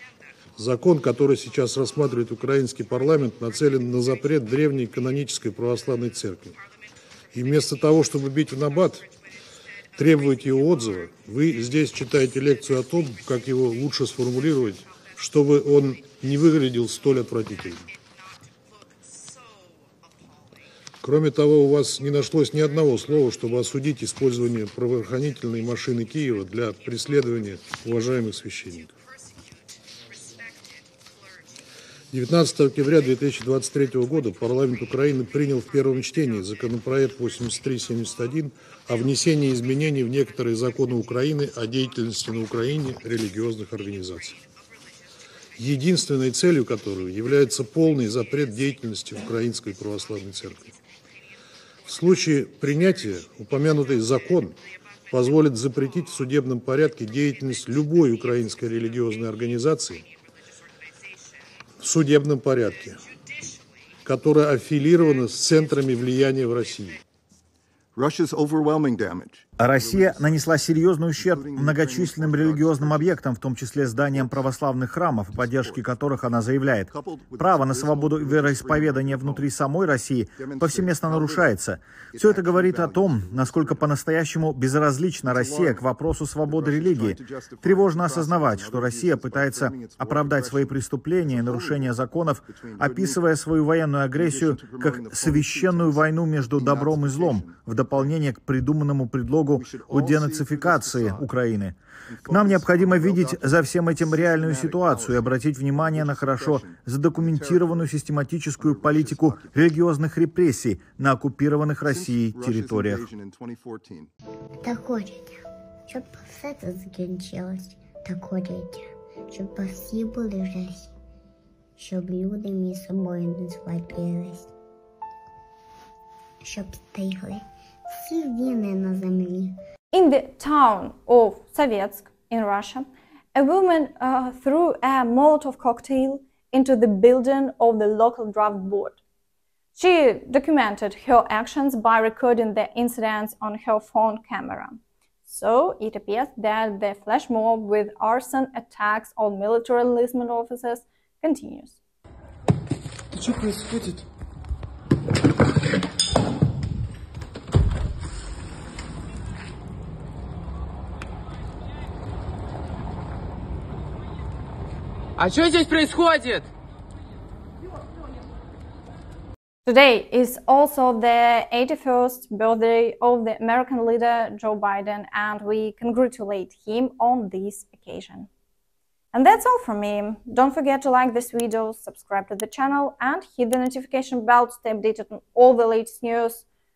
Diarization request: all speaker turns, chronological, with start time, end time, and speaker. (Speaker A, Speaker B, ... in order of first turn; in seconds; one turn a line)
Speaker A: 0.6-6.6
Speaker A: 7.3-9.1
Speaker A: 9.9-17.9
Speaker A: 21.0-28.9
Speaker A: 32.1-44.4
Speaker A: 45.5-50.7
Speaker A: 51.8-54.5
Speaker A: 55.1-60.0
Speaker A: 61.8-63.0
Speaker A: 64.0-67.0
Speaker B: 67.9-70.6
Speaker C: 69.6-113.0
Speaker B: 71.1-73.2
Speaker B: 74.0-74.6
Speaker B: 75.3-75.9
Speaker B: 76.9-79.5
Speaker B: 80.3-81.5
Speaker B: 82.1-84.0
Speaker B: 85.2-85.9
Speaker B: 86.4-93.4
Speaker B: 94.1-98.1
Speaker B: 99.5-101.3
Speaker B: 102.1-107.9
Speaker B: 108.5-109.7
Speaker B: 111.8-114.1
Speaker D: 114.6-120.9
Speaker D: 121.8-124.5
Speaker D: 126.4-129.5
Speaker E: 129.9-139.0
Speaker E: 139.7-151.8
Speaker F: 153.2-154.0
Speaker F: 165.2-166.5
Speaker E: 169.7-178.3
Speaker E: 179.1-186.4